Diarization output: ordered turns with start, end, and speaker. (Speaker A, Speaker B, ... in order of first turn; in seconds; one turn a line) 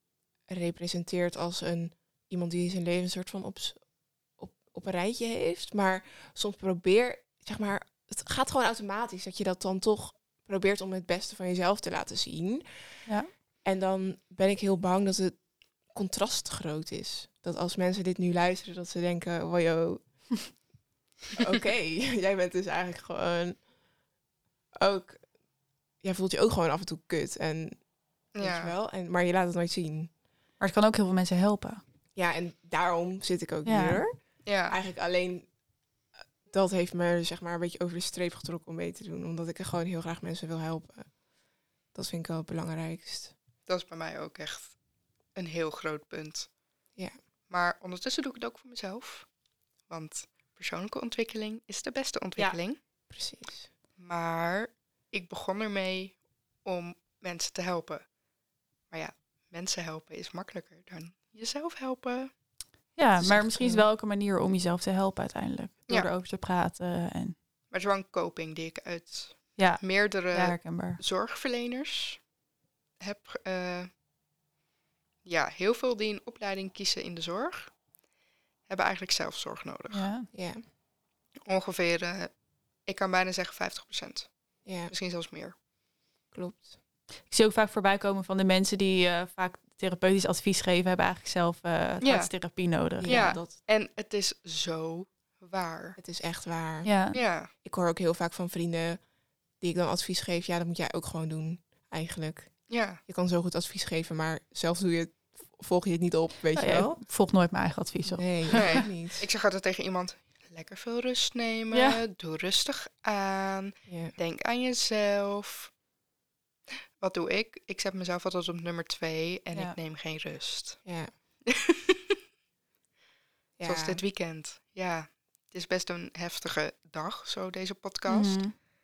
Speaker A: 0.5-13.1
Speaker A: 13.6-20.6
Speaker A: 21.4-23.7
Speaker A: 24.8-25.3
Speaker A: 26.0-30.1
Speaker B: 28.3-28.7
Speaker C: 30.6-31.8
Speaker A: 32.1-35.6
Speaker C: 33.6-34.0
Speaker B: 34.4-34.8
Speaker A: 36.1-41.2
Speaker A: 41.9-43.3
Speaker B: 43.6-44.8
Speaker B: 45.3-46.5
Speaker B: 47.5-52.8
Speaker A: 53.1-53.7
Speaker B: 54.0-58.1
Speaker B: 58.9-62.3
Speaker C: 63.0-67.3
Speaker A: 63.2-63.9
Speaker B: 67.7-72.3
Speaker C: 69.5-71.0
Speaker B: 73.0-73.9
Speaker B: 75.2-77.8
Speaker B: 78.7-80.1
Speaker C: 79.9-80.3
Speaker A: 80.3-80.6
Speaker B: 81.4-85.6
Speaker A: 84.6-84.9
Speaker A: 86.3-86.7
Speaker C: 87.3-93.4
Speaker B: 92.0-96.0
Speaker A: 93.0-93.5
Speaker A: 96.0-99.0
Speaker C: 96.8-97.2
Speaker B: 97.1-97.5
Speaker A: 99.6-107.0
Speaker B: 102.7-103.0
Speaker C: 106.5-108.9
Speaker A: 108.1-109.3
Speaker B: 108.5-115.7
Speaker C: 111.7-112.0
Speaker A: 113.8-114.2
Speaker B: 117.0-120.9
Speaker A: 120.8-121.1
Speaker B: 121.5-122.1
Speaker A: 123.6-124.0
Speaker B: 123.6-128.6
Speaker C: 128.1-128.5